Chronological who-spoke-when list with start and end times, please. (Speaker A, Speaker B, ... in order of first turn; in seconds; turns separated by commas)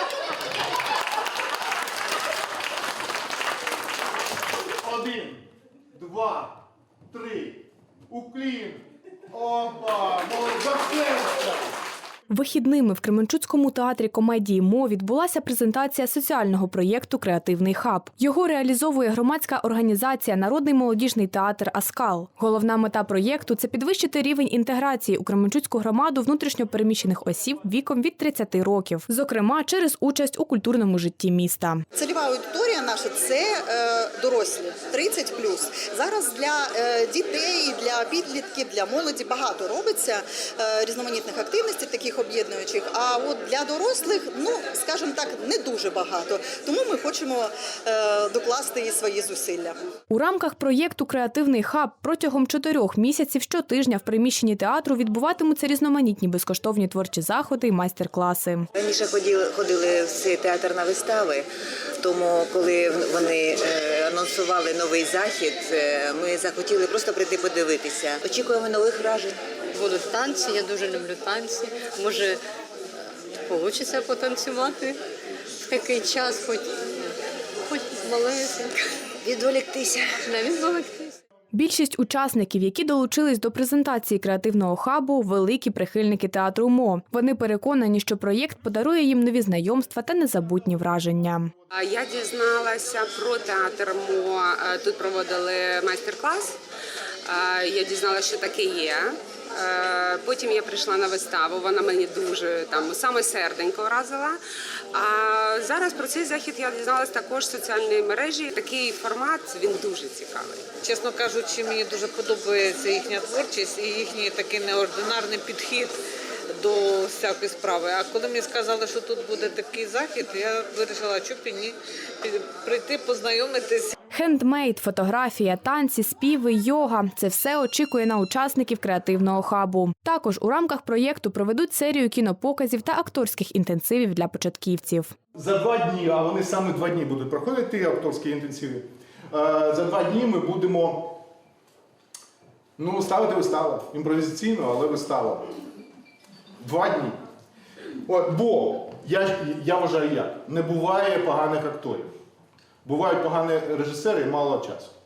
Speaker A: 4.8-5.4, Speaker A: 5.9-6.6, Speaker A: 7.1-11.7, Speaker B: 12.3-31.8, Speaker C: 31.9-49.8, Speaker B: 50.1-58.7, Speaker D: 58.7-61.5, Speaker D: 62.0-69.4, Speaker E: 69.8-72.4, Speaker E: 73.5-75.0, Speaker E: 75.7-77.1, Speaker E: 77.7-78.7, Speaker E: 80.3-81.1, Speaker B: 81.5-91.5, Speaker F: 91.7-96.6, Speaker F: 97.2-104.4, Speaker F: 104.9-110.6, Speaker G: 110.8-116.0, Speaker G: 116.5-123.9, Speaker B: 124.1-135.1, Speaker A: 135.3-141.2, Speaker A: 142.8-145.5, Speaker A: 146.6-147.2, Speaker A: 148.1-152.1, Speaker A: 152.8-154.9